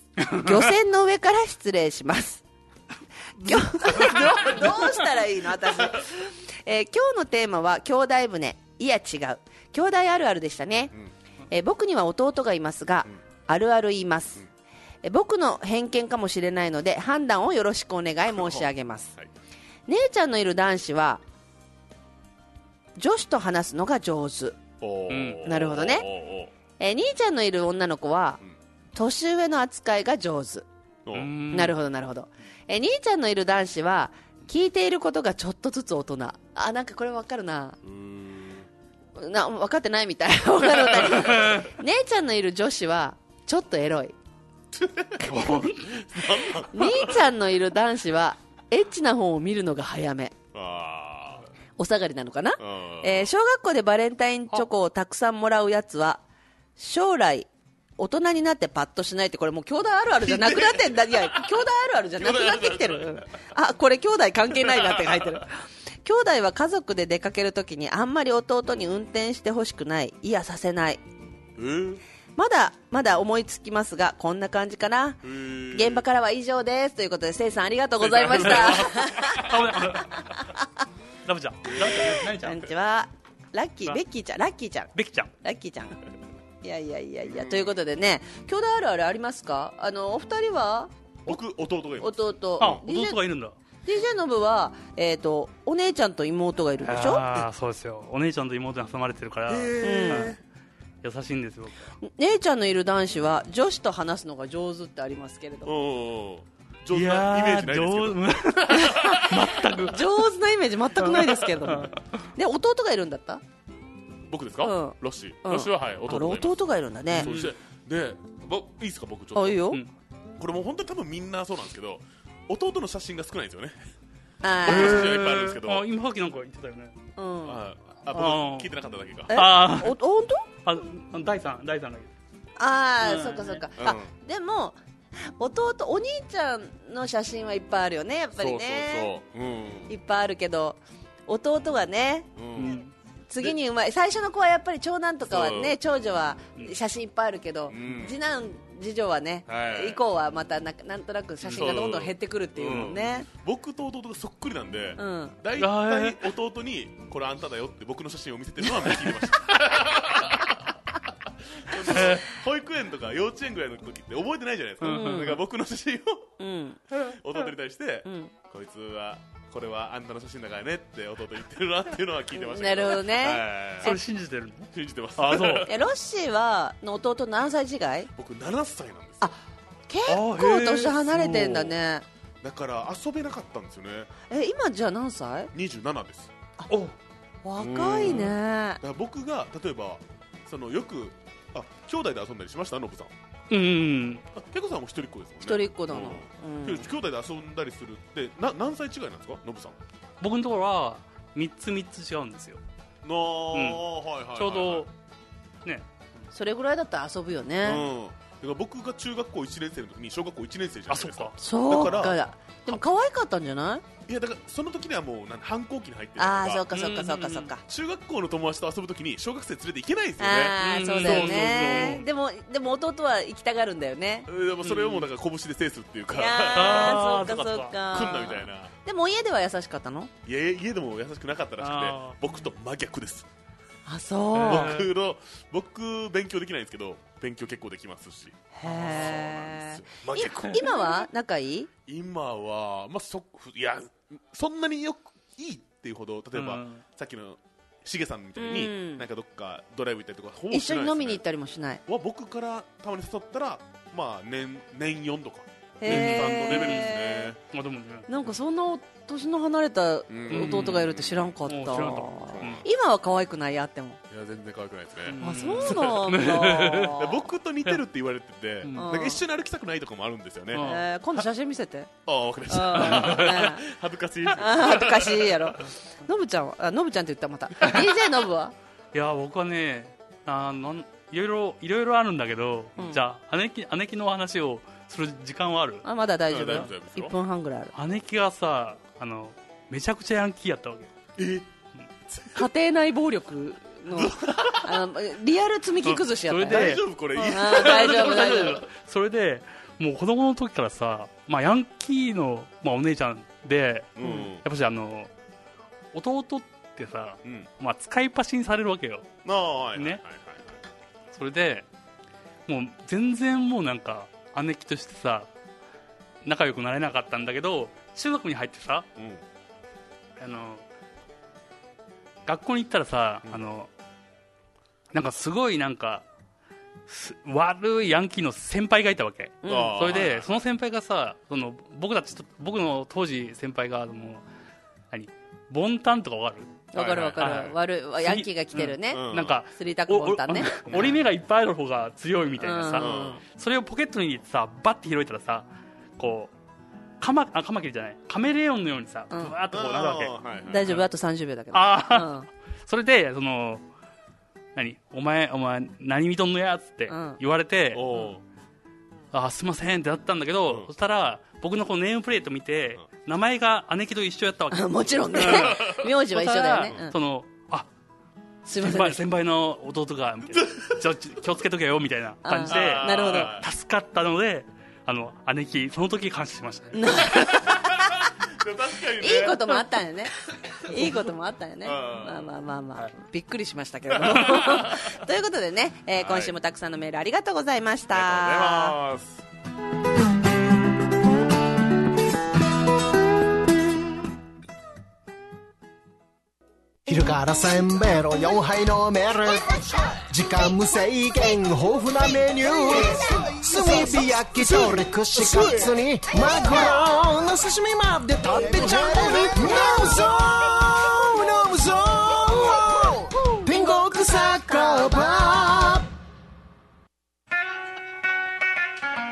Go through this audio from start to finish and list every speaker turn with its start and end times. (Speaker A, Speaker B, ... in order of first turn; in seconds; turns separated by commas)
Speaker A: 0.2-2.4, Speaker A: 3.4-10.9, Speaker B: 4.0-4.8, Speaker A: 11.5-14.4, Speaker A: 15.0-19.1, Speaker B: 18.3-18.7, Speaker A: 19.9-21.2, Speaker A: 23.0-24.6, Speaker B: 24.8-26.5, Speaker C: 25.1-25.4, Speaker A: 25.4-26.1, Speaker A: 26.8-28.4, Speaker A: 28.9-30.6, Speaker B: 31.1-31.3, Speaker C: 31.1-31.7, Speaker A: 31.5-37.8, Speaker B: 37.8-38.7, Speaker A: 39.1-44.1, Speaker B: 41.0-41.5, Speaker B: 44.7-47.1, Speaker C: 45.2-46.0, Speaker A: 46.7-50.3, Speaker B: 50.5-51.4, Speaker A: 51.8-56.2, Speaker B: 52.6-53.3, Speaker A: 56.8-71.0, Speaker B: 60.2-61.5, Speaker B: 62.2-63.2, Speaker B: 71.6-72.0, Speaker A: 72.4-75.2, Speaker B: 75.2-76.0, Speaker A: 75.7-79.5, Speaker B: 78.0-79.7, Speaker C: 78.4-80.5, Speaker C: 81.2-82.6, Speaker B: 81.8-82.2, Speaker A: 82.3-86.0, Speaker C: 84.9-85.3, Speaker A: 86.6-90.9, Speaker B: 87.3-87.7, Speaker B: 91.2-92.8, Speaker A: 92.0-93.2, Speaker C: 92.6-93.5, Speaker A: 93.8-97.2, Speaker C: 96.8-100.4, Speaker B: 99.5-100.3, Speaker A: 99.8-100.4, Speaker C: 101.0-101.9, Speaker A: 102.0-105.7, Speaker B: 105.7-109.3, Speaker C: 106.9-110.0, Speaker A: 108.9-109.2, Speaker A: 109.9-113.4, Speaker C: 111.0-112.0, Speaker B: 114.3-116.6, Speaker A: 114.6-117.3, Speaker C: 117.1-117.5, Speaker B: 117.1-119.6, Speaker A: 119.3-119.8, Speaker B: 120.4-123.8, Speaker A: 124.4-125.2, Speaker B: 124.6-125.8, Speaker C: 124.7-126.9, Speaker A: 127.2-127.6, Speaker B: 127.4-129.3, Speaker C: 128.1-128.7, Speaker A: 129.3-130.4, Speaker C: 129.3-129.9, Speaker C: 130.6-132.1, Speaker A: 132.6-134.8, Speaker C: 133.0-133.6, Speaker B: 133.8-134.1, Speaker A: 135.4-139.1, Speaker B: 138.4-139.9, Speaker A: 139.9-142.3, Speaker B: 142.4-142.8, Speaker C: 142.5-142.9, Speaker A: 143.3-153.2, Speaker B: 145.2-145.8, Speaker B: 147.7-148.1, Speaker B: 149.5-150.0, Speaker C: 151.4-151.7, Speaker B: 151.5-160.7, Speaker A: 155.0-155.3, Speaker C: 155.6-156.2, Speaker B: 161.6-166.3, Speaker C: 162.0-162.2, Speaker C: 164.8-165.4, Speaker A: 164.8-165.4, Speaker A: 166.4-166.8, Speaker B: 167.0-174.0, Speaker A: 168.0-168.3, Speaker A: 172.3-174.0, Speaker C: 173.8-175.7, Speaker B: 174.7-175.8, Speaker A: 175.7-178.1, Speaker B: 178.1-179.3, Speaker A: 179.2-182.1, Speaker C: 180.1-180.9, Speaker B: 181.1-181.7, Speaker B: 182.4-184.1, Speaker A: 184.3-185.5, Speaker B: 185.5-186.3, Speaker C: 186.7-186.9, Speaker A: 187.4-188.8, Speaker B: 187.6-193.1, Speaker C: 188.0-188.3, Speaker C: 193.5-194.2, Speaker B: 194.3-199.8, Speaker A: 195.4-196.9, Speaker C: 200.2-202.6, Speaker B: 203.0-204.9, Speaker C: 203.5-203.8, Speaker C: 204.3-204.9, Speaker A: 206.3-207.8, Speaker B: 207.6-212.8, Speaker C: 210.9-211.3, Speaker A: 211.4-213.8, Speaker B: 214.1-216.7, Speaker A: 216.2-217.6, Speaker C: 216.7-217.5, Speaker B: 217.7-221.9, Speaker A: 220.2-224.3, Speaker C: 220.6-222.1, Speaker B: 224.3-227.2, Speaker C: 224.6-225.1, Speaker A: 226.1-230.1, Speaker C: 226.5-227.7, Speaker B: 227.8-228.7, Speaker B: 230.2-233.3, Speaker C: 231.6-232.2, Speaker A: 233.9-234.7, Speaker C: 234.3-234.9, Speaker B: 234.4-241.0, Speaker A: 238.5-241.7, Speaker C: 238.8-239.1, Speaker B: 241.9-251.2, Speaker C: 246.3-246.8, Speaker A: 248.4-249.1, Speaker A: 250.5-251.8, Speaker B: 251.9-257.4, Speaker A: 255.8-257.3, Speaker C: 255.9-256.9, Speaker C: 257.4-258.1, Speaker A: 258.1-264.0, Speaker B: 260.1-261.3, Speaker C: 260.3-260.9, Speaker C: 261.4-262.6, Speaker B: 262.3-262.7, Speaker B: 264.1-270.7, Speaker C: 265.0-267.0, Speaker A: 265.2-267.2, Speaker A: 268.7-269.2, Speaker C: 270.5-270.8, Speaker A: 270.6-271.9, Speaker B: 272.1-275.5, Speaker A: 272.5-273.6, Speaker C: 272.7-273.4, Speaker A: 274.3-278.5, Speaker C: 278.9-285.8, Speaker A: 282.8-283.0, Speaker A: 285.8-287.7, Speaker B: 286.3-287.1, Speaker C: 287.7-290.9, Speaker B: 291.2-291.5, Speaker B: 292.1-292.4, Speaker A: 292.4-298.6, Speaker B: 293.9-294.8, Speaker C: 296.3-305.1, Speaker B: 296.5-298.5, Speaker B: 304.0-304.4, Speaker C: 305.9-309.1, Speaker B: 309.2-310.5, Speaker C: 309.7-310.0, Speaker C: 311.1-311.6, Speaker C: 312.5-315.3, Speaker C: 316.2-318.9, Speaker B: 318.9-319.2, Speaker C: 320.2-320.6, Speaker C: 322.2-323.7, Speaker C: 324.9-326.0, Speaker C: 326.9-334.2, Speaker A: 329.4-329.8, Speaker B: 329.5-330.3, Speaker C: 334.9-336.6, Speaker A: 336.7-341.0, Speaker B: 336.7-337.5, Speaker C: 337.2-346.3, Speaker B: 338.9-339.4, Speaker A: 342.4-343.2, Speaker B: 342.8-343.2, Speaker C: 347.0-350.1, Speaker A: 349.1-349.4, Speaker B: 349.5-350.8, Speaker A: 350.5-352.3, Speaker C: 351.5-352.1, Speaker C: 352.6-353.6, Speaker C: 354.6-357.9, Speaker A: 356.9-357.2, Speaker B: 357.7-358.2, Speaker C: 359.1-367.7, Speaker A: 364.5-366.9, Speaker B: 365.2-365.8, Speaker A: 368.4-369.0, Speaker C: 368.6-376.8, Speaker B: 370.3-370.8, Speaker A: 372.2-373.3, Speaker B: 372.5-373.4, Speaker A: 376.7-377.9, Speaker B: 377.3-377.8, Speaker B: 378.4-379.6, Speaker A: 379.0-380.1, Speaker A: 380.6-388.8, Speaker B: 381.6-382.3, Speaker B: 383.9-384.8, Speaker B: 385.9-386.3, Speaker B: 387.9-389.2, Speaker D: 396.9-415.9